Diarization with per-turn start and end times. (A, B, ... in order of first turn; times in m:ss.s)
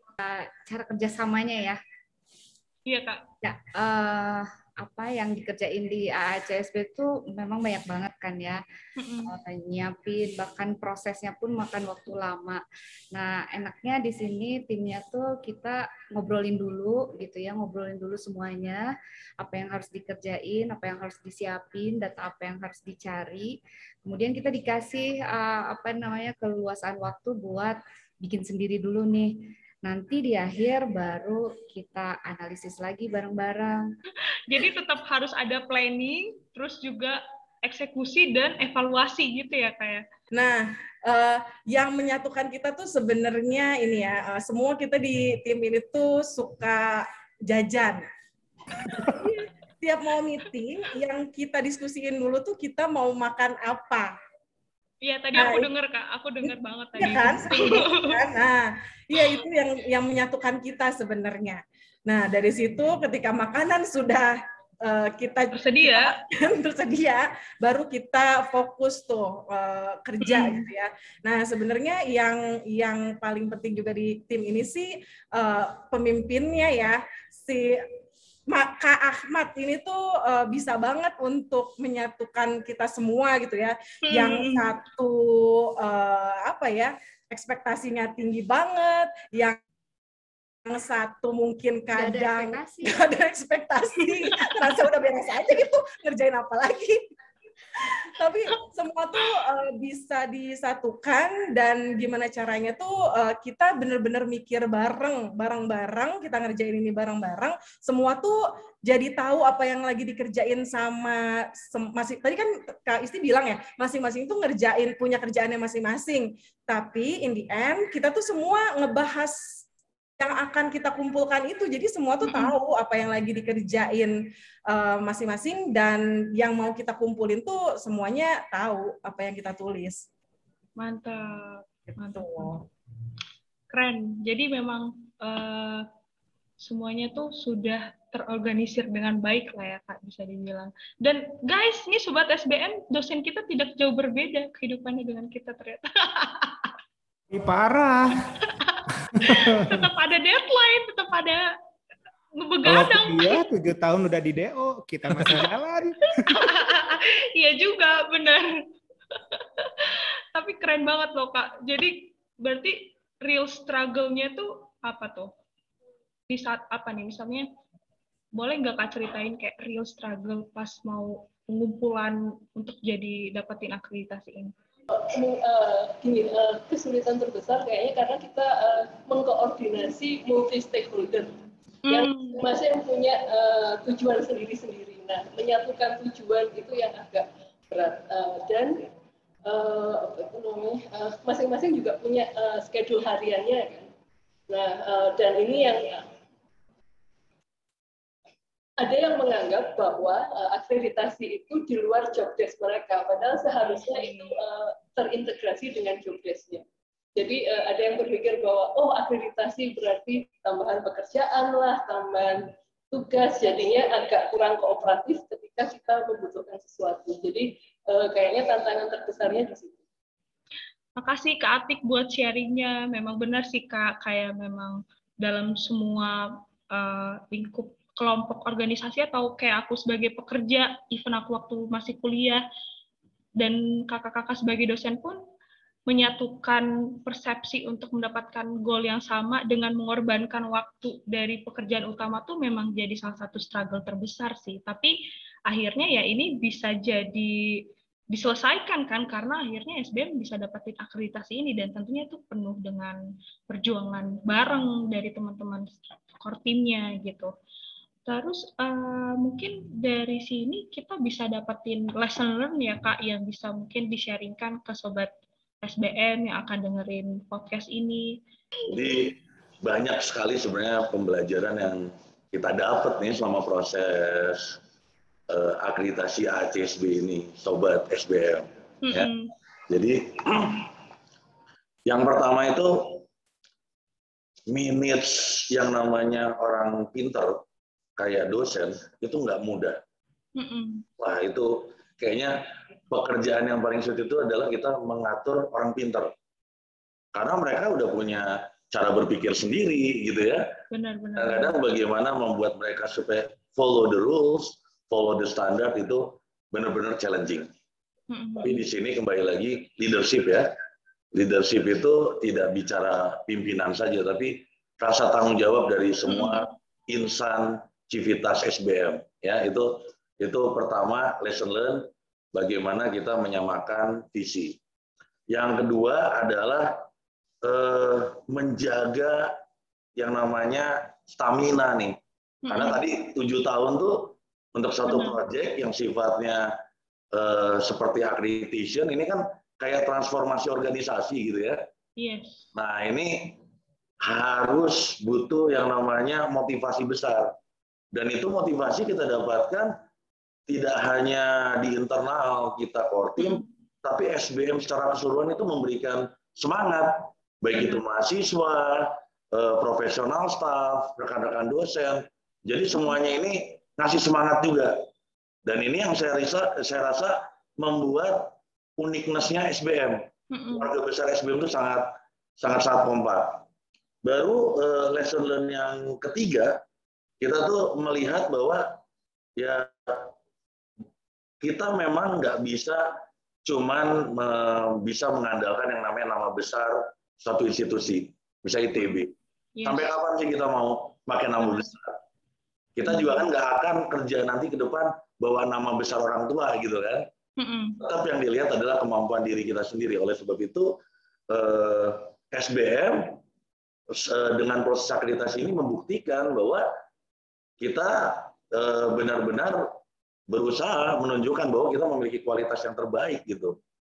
0:00.2-0:01.8 A
0:02.8-0:03.2 B
0:03.4-0:08.6 A
0:09.0-0:09.4 B
0:09.2-0:12.6 A
0:13.1-0:18.8 A
0:19.4-0:33.8 A
0:34.5-0:40.0 B
0:40.3-0:48.0 C
0:49.0-0:54.1 C
0:55.0-0:58.2 B
0:55.3-0:55.7 C
0:56.4-1:17.9 C
1:05.5-1:06.1 B
1:10.2-1:10.6 B
1:18.5-1:29.6 C
1:24.0-1:24.7 B
1:30.6-1:37.0 C
1:31.9-1:33.0 A
1:38.0-1:59.4 C
2:00.2-2:04.2 C
2:02.2-2:02.5 B
2:04.7-2:10.0 C
2:10.8-2:12.6 B
2:12.2-2:12.6 C
2:13.7-2:15.8 B
2:16.6-2:26.6 B
2:27.3-2:28.1 D
2:28.4-2:31.5 B
2:29.1-2:29.7 D
2:32.4-2:33.4 B
2:32.6-2:36.3 D
2:36.1-2:38.6 B
2:39.1-2:45.3 B
2:46.3-2:47.4 B
2:48.3-2:54.5 B
2:54.9-3:08.9 E
3:01.8-3:02.4 B
3:09.4-3:13.9 E
3:14.5-3:16.1 E
3:18.8-3:26.6 E
3:23.9-3:24.3 B
3:27.2-3:39.8 E
3:41.0-3:52.4 B
3:53.4-3:55.2 B
3:55.9-4:04.9 B
4:05.5-4:13.0 B
4:13.5-4:17.3 B
4:18.0-4:25.1 B
4:25.6-4:28.2 B
4:28.7-4:34.6 F
4:35.3-4:39.1 F
4:38.8-4:39.3 B
4:39.7-4:40.7 F
4:41.8-4:43.0 F
4:44.5-4:47.4 F
4:48.0-4:49.8 F
4:50.4-4:50.8 B
4:51.0-4:56.1 F
4:57.1-5:00.5 F
5:00.7-5:01.6 B
5:01.2-5:07.5 F
5:08.1-5:08.6 B
5:08.4-5:10.5 F
5:11.1-5:24.6 F
5:16.1-5:16.5 B
5:25.3-5:26.8 F
5:27.4-5:29.3 F
5:30.0-5:32.0 F
5:32.4-5:32.8 B
5:32.5-5:36.5 F
5:34.8-5:35.2 B
5:37.1-5:41.6 F
5:42.0-5:42.4 B
5:42.6-5:43.4 F
5:44.0-5:47.4 F
5:47.9-5:49.7 F
5:50.5-6:04.8 F
5:53.2-5:53.5 B
5:57.5-5:57.8 B
6:05.4-6:11.9 F
6:10.3-6:10.7 B
6:12.4-6:13.4 F
6:14.0-6:16.6 F
6:17.2-6:18.8 F
6:19.4-6:20.1 F
6:21.4-6:32.0 F
6:29.6-6:29.9 B
6:31.4-6:31.7 B
6:32.8-6:37.1 F
6:32.8-6:33.3 B
6:37.4-6:37.8 B
6:37.8-6:40.8 F
6:41.3-6:43.2 F
6:43.9-6:46.7 F
6:47.6-6:49.8 F
6:50.3-6:53.6 F